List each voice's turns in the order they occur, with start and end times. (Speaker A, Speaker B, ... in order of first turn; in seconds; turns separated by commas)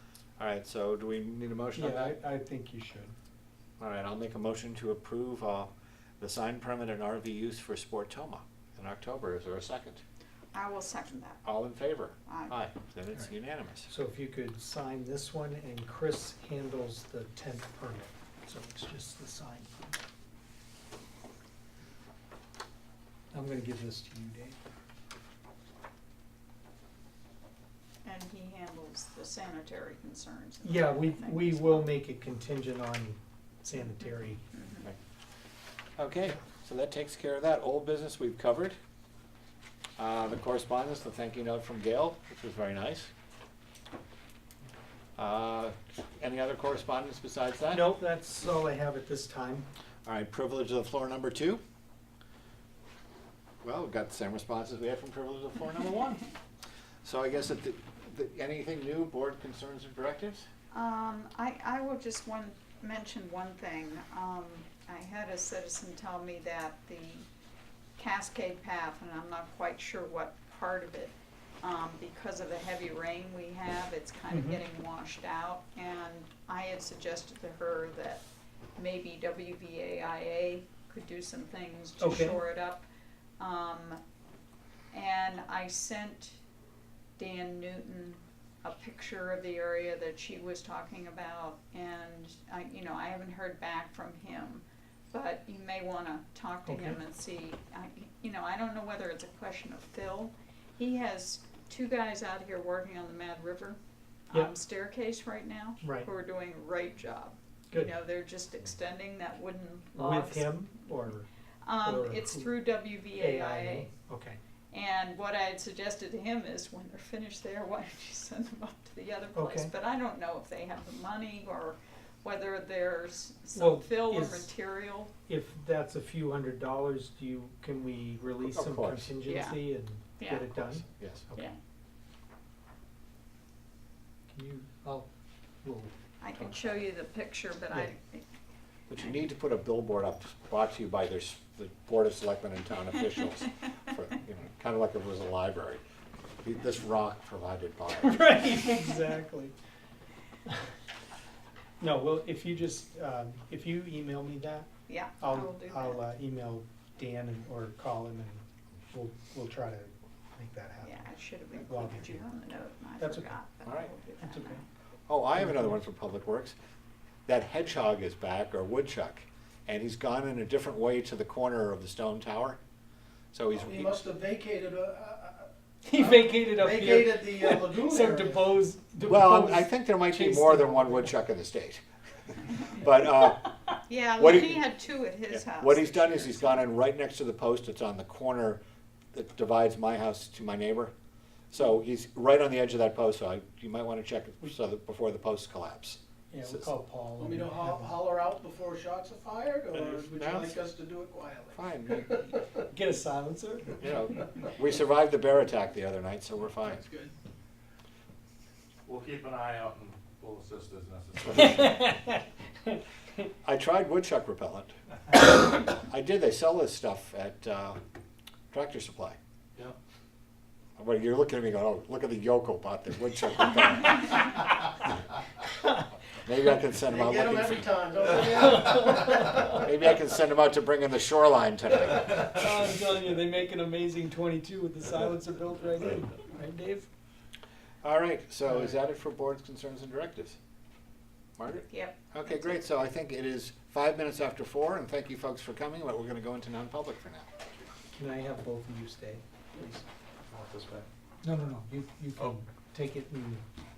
Speaker A: 0.4-2.1, Speaker B: 1.7-3.1, Speaker A: 3.8-10.0, Speaker C: 10.5-11.4, Speaker A: 11.4-13.9, Speaker C: 12.3-12.5, Speaker B: 13.9-20.0, Speaker B: 23.3-24.6, Speaker C: 28.0-32.0, Speaker B: 30.6-34.4, Speaker C: 34.0-34.9, Speaker A: 36.0-38.8, Speaker A: 40.0-43.1, Speaker A: 45.2-47.9, Speaker B: 47.7-49.6, Speaker A: 50.0-51.6, Speaker A: 53.6-56.2, Speaker A: 57.0-60.5, Speaker C: 60.7-67.2, Speaker C: 68.0-78.2, Speaker B: 74.3-74.6, Speaker C: 78.8-82.8, Speaker B: 82.0-82.4, Speaker C: 83.4-84.0, Speaker C: 84.9-86.4, Speaker C: 87.2-103.8, Speaker B: 96.7-97.0, Speaker C: 104.3-110.6, Speaker B: 105.8-106.1, Speaker B: 109.9-111.3, Speaker C: 111.6-113.9, Speaker B: 111.8-112.5, Speaker B: 113.2-114.4, Speaker C: 114.7-125.1, Speaker B: 119.3-119.7, Speaker B: 123.5-124.5, Speaker B: 125.3-131.4, Speaker A: 128.4-129.1, Speaker C: 129.2-130.5, Speaker A: 130.6-131.2, Speaker B: 134.3-135.1, Speaker B: 135.6-135.9, Speaker C: 136.2-138.2, Speaker A: 138.9-145.8, Speaker A: 146.4-148.5, Speaker B: 148.0-149.5, Speaker B: 151.8-154.7, Speaker C: 154.9-156.0, Speaker B: 155.2-162.2, Speaker C: 160.8-164.7, Speaker B: 163.0-163.3, Speaker A: 163.6-163.9, Speaker B: 164.2-164.6, Speaker A: 165.1-166.6, Speaker B: 165.3-165.8, Speaker A: 167.2-172.6, Speaker A: 173.3-173.9, Speaker D: 173.6-175.5, Speaker B: 175.8-181.1, Speaker D: 176.0-178.6, Speaker A: 179.0-181.8, Speaker A: 182.5-183.5, Speaker C: 183.8-186.7, Speaker A: 184.2-184.6, Speaker A: 185.3-188.6, Speaker A: 189.1-190.9, Speaker A: 191.5-196.7, Speaker B: 196.3-197.9, Speaker D: 197.2-202.4, Speaker A: 199.7-200.5, Speaker A: 201.5-202.3, Speaker B: 202.7-203.8, Speaker A: 203.8-206.8, Speaker D: 206.6-207.1, Speaker E: 208.8-211.8, Speaker A: 211.3-211.6, Speaker B: 211.4-212.1, Speaker A: 213.4-217.8, Speaker A: 218.5-219.2, Speaker A: 220.8-224.5, Speaker A: 226.2-228.6, Speaker D: 226.8-229.6, Speaker A: 229.4-232.4, Speaker B: 232.1-236.9, Speaker A: 237.8-240.4, Speaker A: 241.4-247.3, Speaker C: 241.5-242.6, Speaker B: 247.9-249.2, Speaker E: 250.3-250.9, Speaker B: 251.2-253.4